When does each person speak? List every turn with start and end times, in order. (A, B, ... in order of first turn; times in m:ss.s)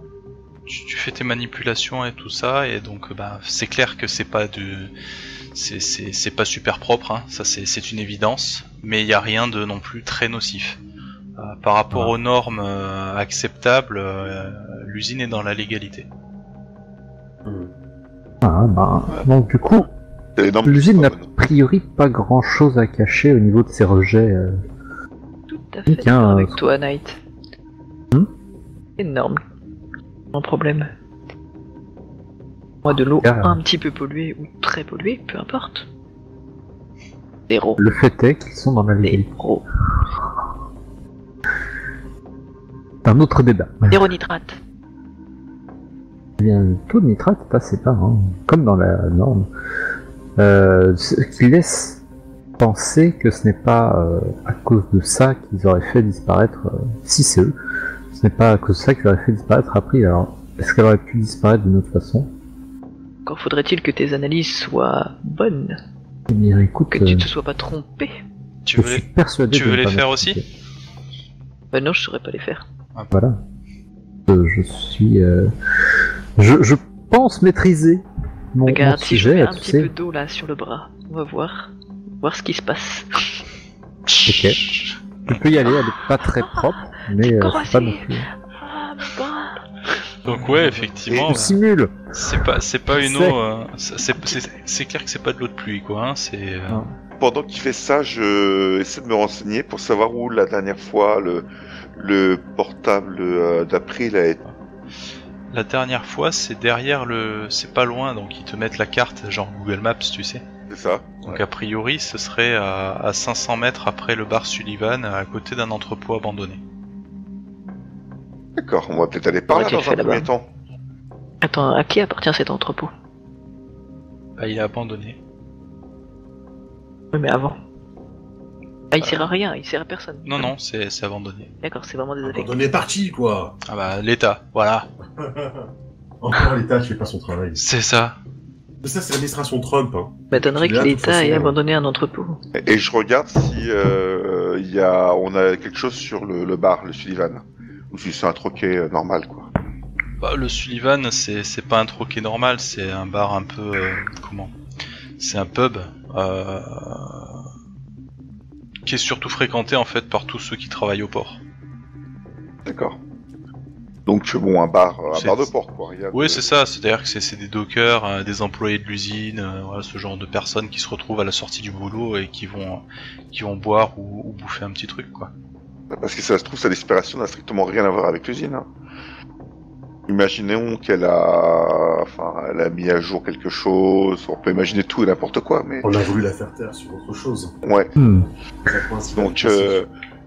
0:00.6-0:04.9 A
0:05.5-0:10.8 A
0:11.4-0:16.1 A
0:17.4-0:17.7 B
0:18.4-0:19.9 C
0:20.4-0:21.3 D
0:20.6-0:24.6 C
0:25.5-0:27.2 E
0:25.9-0:26.6 C
0:29.0-0:29.4 E
0:30.3-0:30.9 E
0:32.8-0:35.9 E
0:33.2-0:33.6 C
0:37.5-0:37.8 E
0:37.8-0:39.3 C
0:39.0-0:39.6 E
0:43.0-0:44.1 C
0:43.9-0:44.6 E
0:46.4-0:49.5 C
0:50.4-0:52.0 C
0:52.6-0:57.5 C
0:58.1-1:02.3 C
1:03.2-1:05.8 E
1:06.3-1:07.3 C
1:06.9-1:08.1 E
1:08.6-1:10.4 A
1:08.8-1:10.4 C
1:11.7-1:12.6 E
1:13.1-1:13.4 C
1:14.3-1:15.5 C
1:16.4-1:19.9 C
1:18.6-1:23.4 E
1:24.1-1:25.4 A
1:24.2-1:24.6 C
1:25.3-1:28.3 C
1:25.7-1:29.6 E
1:30.2-1:31.5 A
1:30.3-1:32.2 C
1:31.1-1:31.4 D
1:32.1-1:36.8 A
1:32.9-1:33.4 C
1:37.2-1:44.4 D
1:45.5-1:50.4 A
1:50.7-1:51.4 D
1:51.2-1:56.6 A
1:58.6-2:00.5 D
1:59.5-2:00.3 E
2:01.4-2:02.9 E
2:04.4-2:05.2 A
2:07.1-2:07.6 E
2:08.9-2:10.5 E
2:09.0-2:09.3 A
2:10.2-2:11.5 A
2:11.6-2:12.6 E
2:12.2-2:13.6 B
2:13.7-2:14.9 A
2:15.2-2:15.7 B
2:16.2-2:17.6 B
2:17.6-2:18.2 A
2:18.8-2:21.5 B
2:20.3-2:22.4 E
2:22.6-2:29.5 D
2:30.2-2:34.5 A
2:35.2-2:37.4 A
2:38.8-2:41.4 A
2:42.6-2:43.0 D
2:44.0-2:46.4 D
2:45.1-2:45.5 A
2:46.1-2:55.3 A
2:55.9-2:58.7 D
3:00.1-3:05.9 D
3:05.8-3:07.5 B
3:07.6-3:07.9 D
3:08.0-3:08.3 C
3:08.6-3:09.8 B
3:09.1-3:09.9 D